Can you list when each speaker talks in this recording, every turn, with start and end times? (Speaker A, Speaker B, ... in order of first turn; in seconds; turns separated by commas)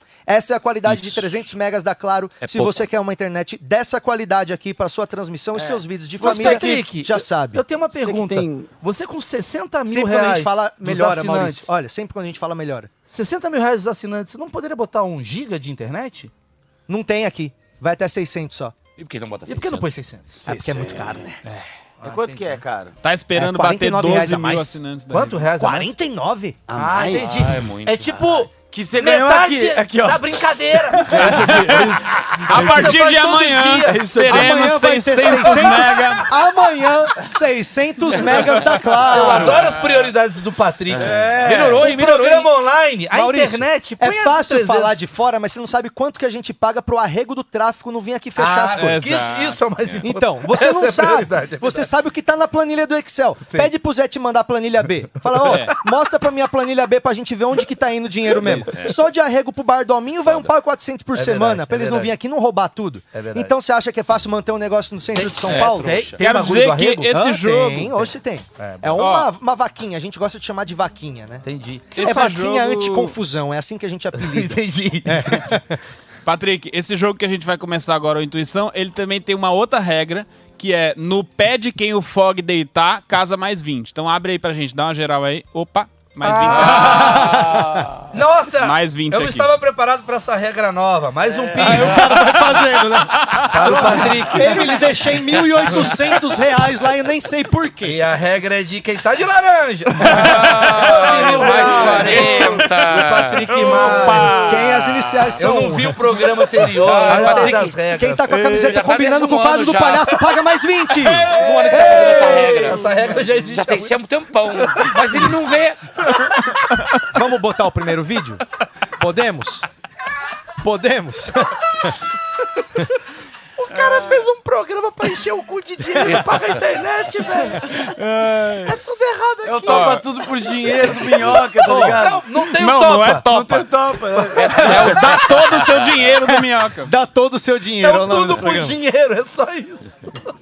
Speaker A: 0.3-7.6, Speaker B: 2.4-2.8, Speaker C: 5.5-6.8, Speaker D: 6.2-11.7, Speaker C: 7.9-8.7, Speaker A: 9.9-12.9, Speaker D: 13.1-16.3, Speaker A: 16.9-18.8, Speaker B: 19.0-19.9, Speaker D: 19.5-20.4, Speaker A: 20.4-21.4, Speaker C: 20.4-22.9, Speaker D: 22.0-22.6, Speaker E: 23.0-25.4, Speaker A: 23.3-24.8, Speaker D: 25.1-25.9, Speaker A: 25.6-26.6, Speaker C: 26.7-27.7, Speaker D: 26.7-31.9, Speaker B: 27.1-28.4, Speaker C: 28.7-33.0, Speaker E: 31.1-36.3, Speaker D: 32.5-34.0, Speaker C: 33.8-34.6, Speaker A: 34.2-39.6, Speaker D: 39.0-45.0, Speaker C: 39.1-39.5, Speaker C: 40.9-41.9, Speaker B: 41.4-42.5, Speaker A: 43.1-49.0, Speaker D: 48.4-51.9, Speaker E: 48.8-49.7, Speaker A: 50.0-66.1, Speaker D: 53.4-53.7, Speaker E: 55.4-55.7, Speaker D: 61.1-62.1, Speaker D: 63.1-63.5, Speaker D: 65.1-67.2, Speaker B: 65.6-66.2, Speaker E: 66.2-68.1, Speaker A: 67.1-71.4, Speaker D: 68.6-69.0, Speaker E: 69.0-69.3, Speaker D: 71.4-72.1, Speaker E: 71.9-73.1, Speaker A: 71.9-75.8, Speaker D: 74.2-75.6, Speaker E: 76.2-87.6, Speaker D: 86.2-87.3, Speaker A: 86.6-87.7, Speaker D: 88.1-92.0, Speaker E: 88.6-89.5, Speaker A: 91.5-98.0, Speaker E: 92.0-94.2, Speaker D: 93.5-94.8, Speaker D: 97.8-104.4, Speaker E: 100.0-105.3, Speaker B: 100.3-103.5, Speaker A: 104.2-106.3, Speaker D: 105.4-108.4, Speaker B: 106.8-107.8, Speaker A: 107.0-111.3, Speaker B: 108.3-110.2, Speaker B: 111.3-113.0, Speaker D: 111.3-114.0, Speaker C: 111.4-112.0, Speaker B: 113.5-115.8, Speaker D: 114.5-115.2, Speaker A: 117.1-118.4, Speaker A: 119.0-119.6, Speaker A: 120.6-121.9, Speaker D: 123.6-127.9, Speaker B: 126.0-126.6, Speaker E: 127.7-128.8, Speaker D: 128.6-129.9, Speaker C: 129.4-132.2, Speaker E: 129.7-130.0, Speaker D: 131.6-133.2, Speaker E: 132.4-133.7, Speaker C: 133.2-135.2, Speaker B: 134.4-135.8, Speaker E: 134.5-136.9, Speaker A: 136.3-138.8, Speaker D: 137.8-139.9